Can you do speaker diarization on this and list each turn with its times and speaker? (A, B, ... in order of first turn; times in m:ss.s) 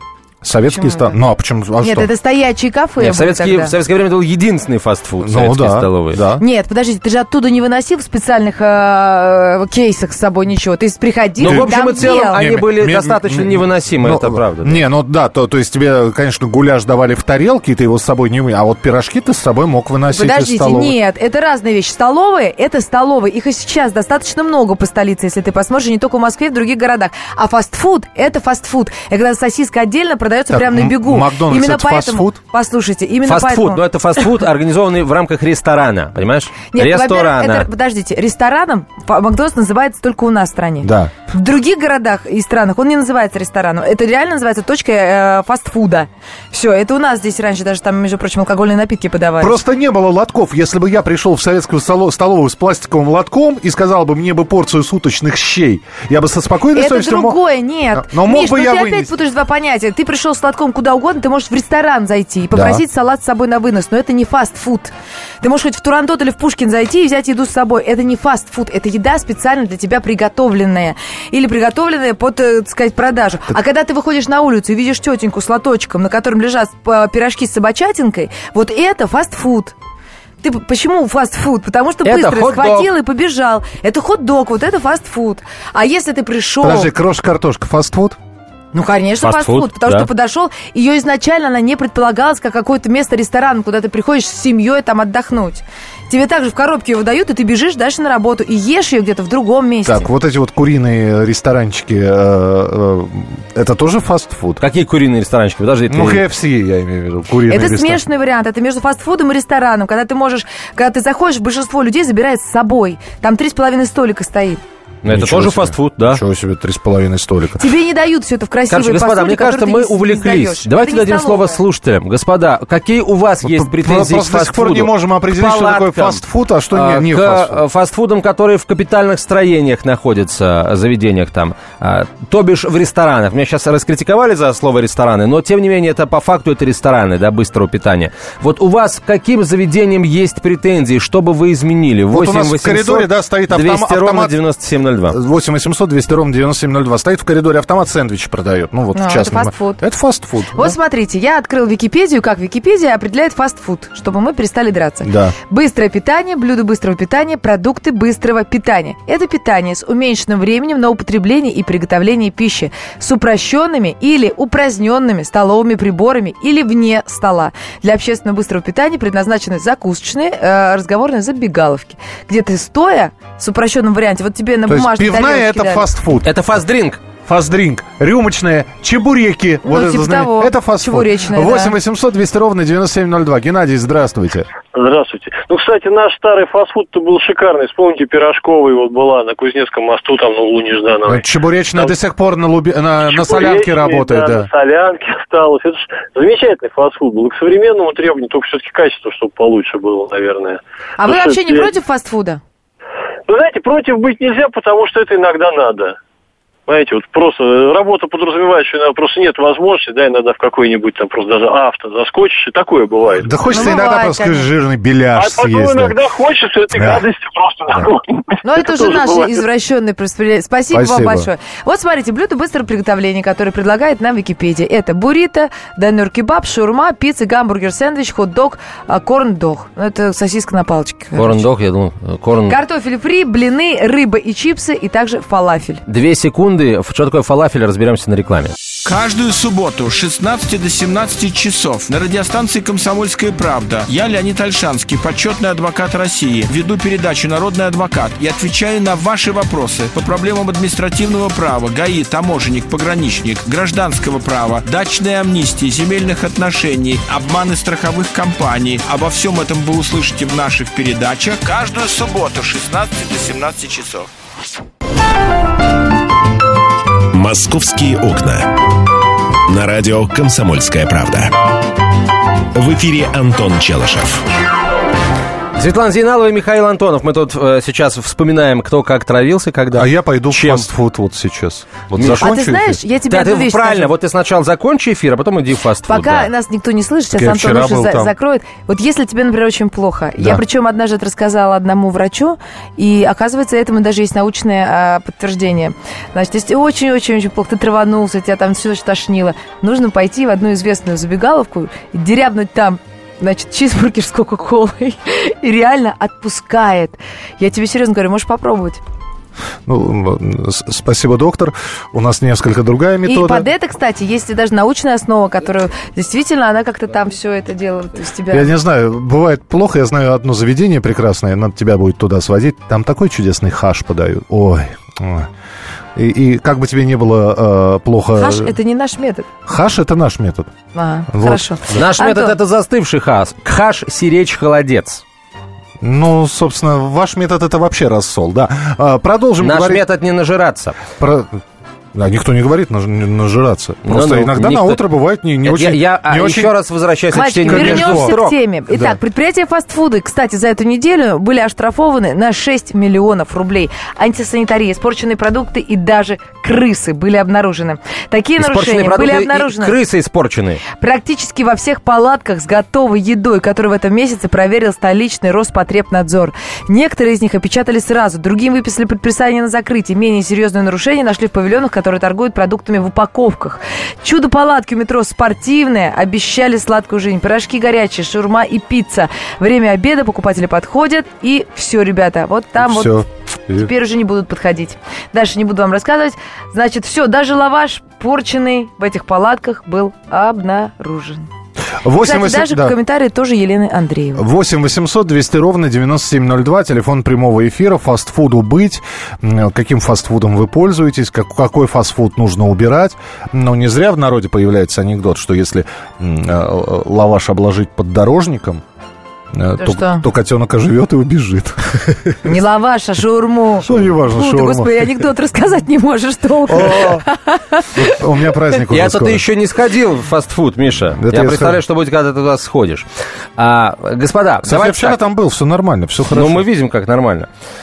0:00.4-0:02.1 A
0:00.7-0:01.2 B
0:01.8-0:03.7 B
0:03.0-0:06.2 C
0:05.2-0:06.4 A
0:06.4-0:12.4 B
0:11.4-0:21.0 A
0:11.4-0:14.8 C
0:20.1-0:33.8 B
0:30.5-0:32.4 A
0:33.2-0:37.7 C
0:36.7-0:49.6 B
0:40.8-0:41.1 A
0:49.4-0:57.4 A
0:56.8-1:19.8 B
0:58.0-0:59.1 A
1:02.5-1:02.8 A
1:20.4-1:26.9 B
1:22.0-1:22.9 C
1:26.6-1:28.2 A
1:28.7-1:40.1 B
1:29.2-1:30.1 C
1:39.9-1:44.6 A
1:44.6-1:46.2 C
1:45.9-1:48.0 A
1:47.5-1:54.6 B
1:55.0-1:56.2 C
1:55.0-1:57.7 A
1:57.6-2:01.6 B
1:58.7-2:25.2 C
2:03.4-2:07.6 A
2:22.1-2:24.4 A
2:25.1-2:30.8 A
2:28.9-2:29.8 B
2:30.5-2:55.9 B
2:35.0-2:35.4 A
2:54.7-2:56.3 A
2:56.2-2:57.0 C
2:57.3-3:04.5 A
2:59.6-3:01.8 B
3:04.7-3:11.2 D
3:11.1-3:14.5 A
3:13.1-3:21.7 D
3:21.0-3:22.4 B
3:23.3-3:26.0 D
3:26.7-3:33.7 D
3:33.2-3:36.0 A
3:33.5-3:34.5 B
3:35.2-3:39.4 D
3:36.8-3:37.0 A
3:38.4-3:51.4 B
3:40.7-3:41.3 A
3:51.2-3:52.6 C
3:52.5-3:55.8 B
3:55.9-3:58.6 C
3:58.8-4:24.1 E
4:27.1-4:28.5 F
4:29.5-4:31.3 F
4:32.6-4:34.2 F
4:35.6-4:40.7 C
4:39.8-4:42.8 A
4:42.0-4:42.3 C
4:42.2-4:43.9 B
4:43.1-4:46.3 C
4:45.9-5:08.8 B
4:47.1-4:48.1 A
5:09.7-5:13.5 A
5:13.1-5:18.5 B
5:18.3-5:25.3 A
5:26.0-5:28.6 A
5:28.2-5:29.3 B
5:29.5-5:30.5 A
5:30.7-5:32.3 B
5:31.1-5:31.5 A
5:31.7-5:35.0 C
5:35.8-5:39.8 A
5:39.4-5:40.8 C
5:41.0-5:41.4 A
5:41.9-5:46.5 A
5:43.9-5:44.8 C
5:45.4-5:48.4 C
5:47.1-5:59.8 B
5:47.4-5:48.2 A
5:48.7-5:49.0 A
5:58.4-6:00.6 C
6:00.8-6:31.3 B
6:22.6-6:23.7 A
6:31.8-6:32.8 A
6:32.0-6:34.2 B
6:34.2-6:48.6 A
6:49.3-6:51.8 A
6:49.6-6:50.0 B
6:52.2-6:57.7 B
6:53.6-6:54.7 A
6:56.5-6:57.0 A
6:57.7-6:59.2 A
6:58.7-7:02.9 C
7:01.0-7:01.6 A
7:03.4-7:05.0 C
7:04.4-7:06.5 A
7:06.1-7:07.3 C